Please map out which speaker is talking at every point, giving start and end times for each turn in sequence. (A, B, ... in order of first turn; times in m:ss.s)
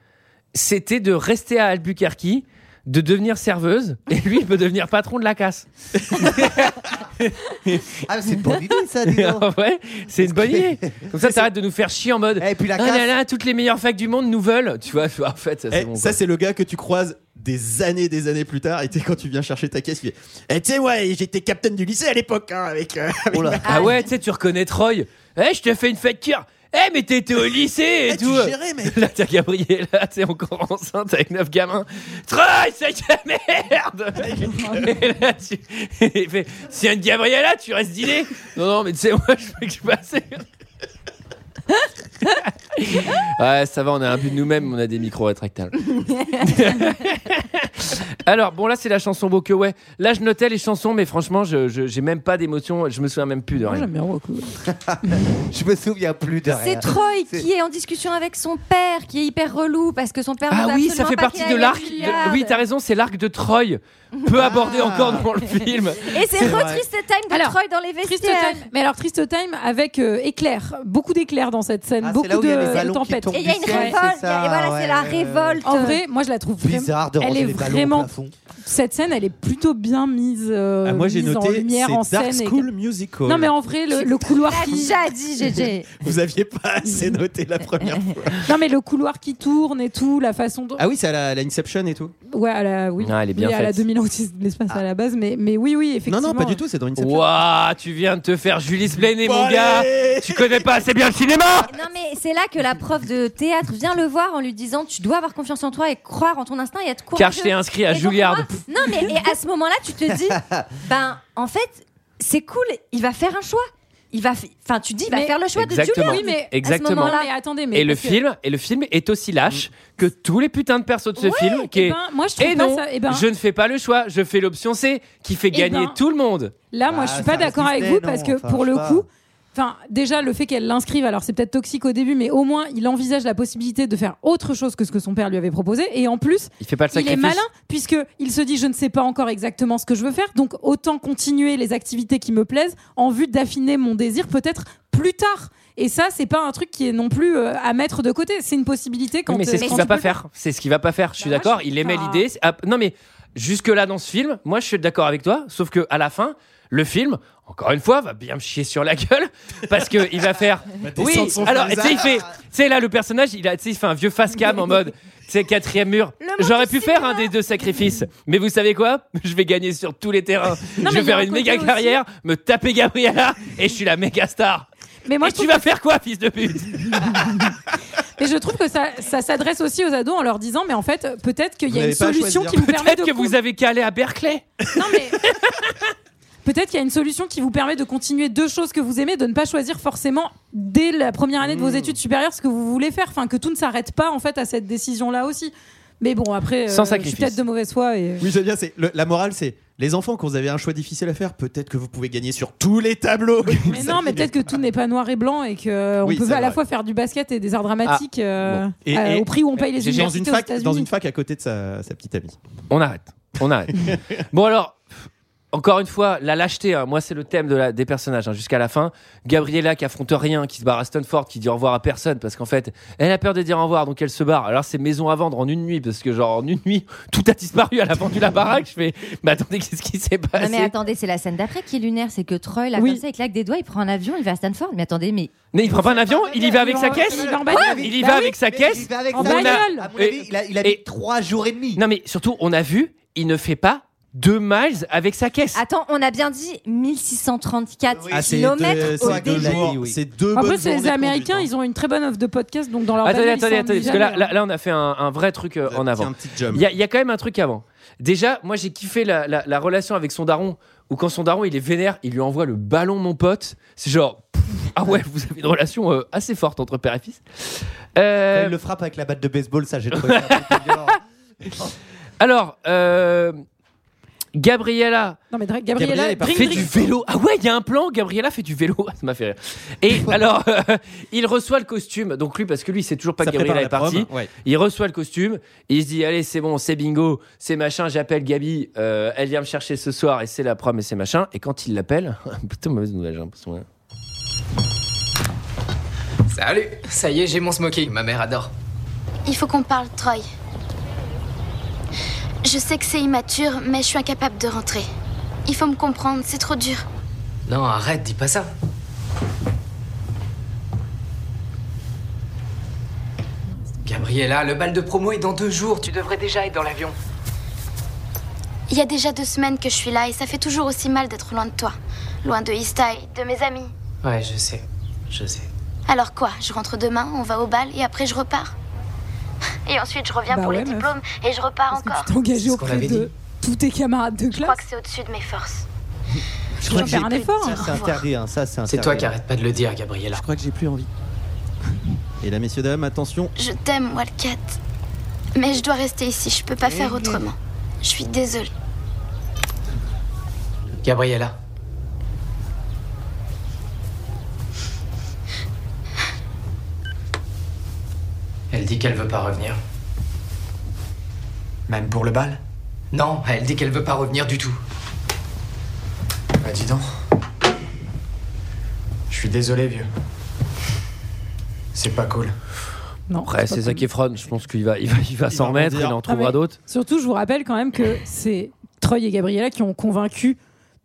0:00.5-0:07.9 A
0:06.1-0:06.5 B
0:08.1-0:09.5 C
0:08.5-0:16.2 A
0:10.2-0:11.4 C
0:12.4-0:13.1 C
0:15.7-0:23.9 B
0:23.3-0:23.8 C
0:23.6-0:24.0 D
0:23.7-0:40.5 A
0:28.1-0:29.1 B
0:34.3-0:34.9 B
0:42.3-0:53.9 A
0:53.6-0:54.5 E
0:54.7-0:57.5 C
0:56.5-1:02.6 D
1:00.5-1:06.2 A
1:01.5-1:02.4 E
1:04.1-1:05.1 D
1:04.4-1:05.3 C
1:06.0-1:08.7 D
1:06.4-1:06.8 C
1:06.4-1:06.7 B
1:07.3-1:14.0 E
1:12.0-1:15.7 C
1:13.3-1:16.0 D
1:15.6-1:18.1 E
1:16.6-1:18.3 C
1:18.6-1:22.7 E
1:20.8-1:23.5 B
1:23.2-1:25.0 E
1:23.9-1:25.9 D
1:26.0-1:28.5 B
1:28.5-1:30.8 E
1:30.8-1:32.2 B
1:32.3-1:36.6 E
1:33.0-1:33.9 A
1:36.1-1:37.3 B
1:37.0-1:41.7 A
1:39.0-1:40.9 B
1:41.7-1:57.3 D
1:47.2-1:48.5 A
1:55.1-1:55.4 E
1:55.6-1:57.2 A
1:56.0-1:58.2 E
1:57.7-2:06.5 A
2:01.2-2:03.3 E
2:05.5-2:06.0 E
2:06.7-2:30.2 E
2:06.9-2:09.0 C
2:16.6-2:17.4 A
2:29.3-2:54.7 A
2:29.6-2:30.1 D
2:31.2-2:32.2 E
2:40.8-2:42.3 B
2:46.2-2:47.3 D
2:50.8-2:52.0 E
2:55.1-2:55.6 E
2:55.2-2:57.2 A
2:58.2-3:03.4 E
3:01.7-3:02.6 B
3:02.6-3:04.5 A
3:04.8-3:05.2 E
3:05.5-3:05.8 A
3:06.4-3:18.2 E
3:11.4-3:12.0 B
3:16.7-3:17.4 A
3:18.2-3:24.6 B
3:23.5-3:30.9 E
3:26.0-3:26.6 B
3:27.8-3:28.6 A
3:28.8-3:32.4 B
3:29.8-3:30.1 A
3:32.7-3:33.8 A
3:33.8-3:34.1 B
3:34.3-3:34.8 A
3:35.5-3:50.7 A
3:50.4-3:55.3 D
3:52.8-3:53.0 E
3:55.5-4:00.8 A
3:55.6-4:01.8 C
3:56.5-3:58.3 E
3:57.5-3:57.8 D
3:59.1-3:59.9 E
4:01.8-4:05.6 A
4:05.6-4:09.7 D
4:07.9-4:10.0 C
4:08.1-4:11.5 B
4:10.3-4:14.3 E
4:13.0-4:28.6 A
4:15.7-4:16.7 B
4:28.3-4:31.7 C
4:29.9-4:30.9 A
4:32.2-4:33.4 A
4:34.4-4:35.2 A
4:35.3-4:36.8 E
4:35.7-4:36.9 B
4:36.2-4:53.6 A
4:43.2-4:44.3 B
4:56.3-4:58.5 F
4:59.3-5:00.2 G
5:02.4-5:04.9 G
5:05.5-5:06.8 G
5:07.5-5:08.5 F
5:13.8-5:17.0 F
5:18.7-5:23.7 G
5:24.0-5:25.5 F
5:25.9-5:28.5 G
5:29.7-5:32.1 G
5:30.3-5:30.9 E
5:31.7-5:34.6 E
5:32.4-5:33.1 F
5:34.3-5:35.6 G
5:36.6-5:37.7 E
5:36.6-5:37.1 B
5:36.8-5:38.1 G
5:37.4-5:39.1 C
5:38.7-5:40.2 F
5:40.1-5:40.9 B
5:42.2-5:43.3 B
5:43.4-5:44.6 G
5:45.4-5:48.5 G
5:50.8-5:51.4 F
5:58.5-5:59.6 F
6:01.7-6:02.4 F
6:02.9-6:04.6 F
6:06.4-6:06.9 F
6:09.1-6:09.9 F
6:11.7-6:12.3 F
6:13.1-6:13.8 E
6:13.2-6:16.6 A
6:15.3-6:16.0 B
6:16.1-6:20.4 E